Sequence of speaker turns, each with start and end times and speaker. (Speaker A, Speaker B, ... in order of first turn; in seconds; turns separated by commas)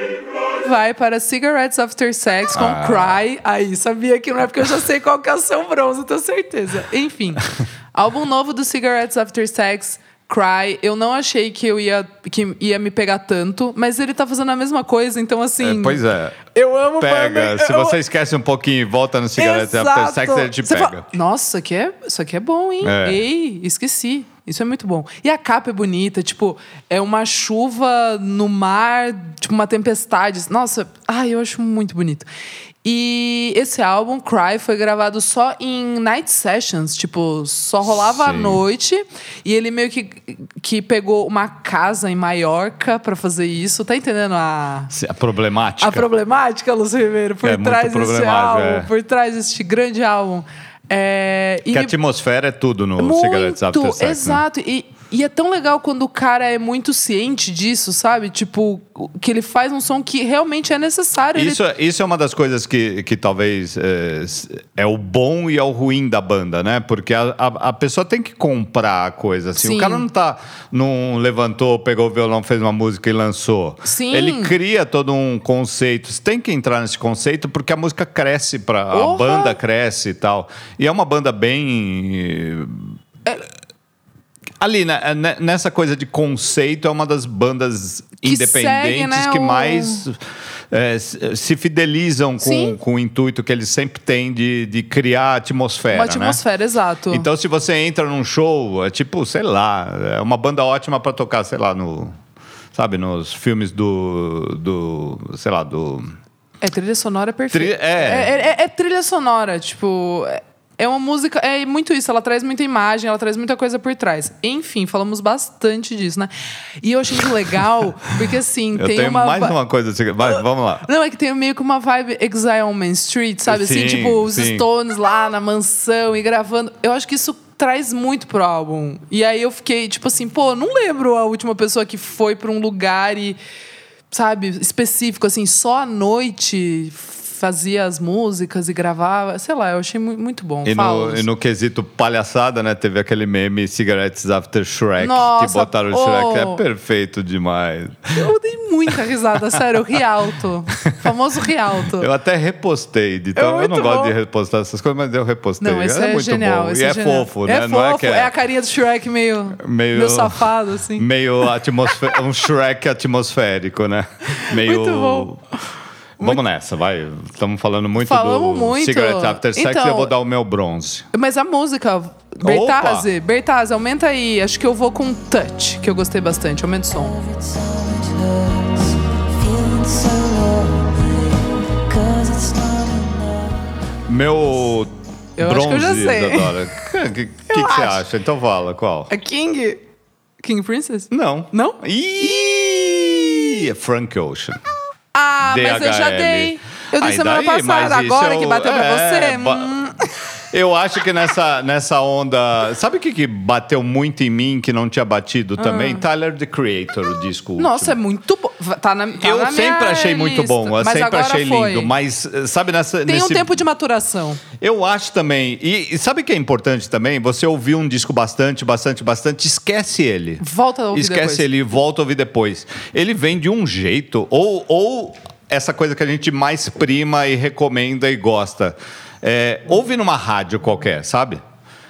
Speaker A: 0.6-16.0, Speaker B: 2.5-3.2, Speaker B: 15.6-16.4, Speaker A: 16.5-18.0, Speaker B: 17.0-21.1, Speaker A: 19.4-32.3, Speaker B: 22.8-23.2, Speaker A: 32.8-44.9, Speaker B: 37.9-38.6, Speaker B: 44.9-46.1, Speaker A: 45.8-51.9, Speaker B: 47.4-48.9, Speaker B: 51.7-54.4, Speaker A: 53.0-61.6, Speaker B: 61.4-83.0, Speaker A: 69.6-70.0, Speaker A: 73.8-74.5, Speaker A: 78.9-79.6, Speaker B: 84.6-90.2, Speaker A: 88.2-90.0, Speaker B: 90.7-96.4, Speaker A: 92.4-92.8, Speaker A: 95.9-97.3, Speaker B: 97.1-102.2, Speaker B: 102.7-106.1, Speaker A: 106.6-119.5, Speaker B: 107.5-108.3, Speaker B: 118.8-120.9, Speaker A: 120.8-133.4, Speaker B: 123.5-124.7, Speaker A: 134.1-141.3, Speaker B: 140.7-148.3, Speaker A: 145.0-146.6, Speaker A: 148.1-152.1, Speaker B: 150.8-151.1, Speaker B: 151.9-158.3, Speaker A: 153.4-154.2, Speaker A: 155.6-161.1, Speaker B: 159.6-165.4, Speaker A: 164.4-165.3, Speaker B: 166.2-171.1, Speaker A: 168.0-170.1, Speaker A: 171.1-177.2, Speaker B: 172.4-173.1, Speaker C: 176.9-183.6, Speaker B: 184.1-189.1, Speaker A: 185.4-186.6, Speaker A: 187.5-188.0, Speaker A: 189.1-189.8, Speaker A: 190.4-191.8, Speaker B: 191.1-194.6, Speaker A: 195.1-200.3, Speaker B: 195.4-199.8, Speaker B: 200.5-207.9, Speaker A: 205.6-206.0, Speaker A: 207.6-211.9, Speaker B: 209.2-213.6, Speaker A: 213.1-214.4, Speaker B: 214.6-231.4, Speaker A: 220.4-221.5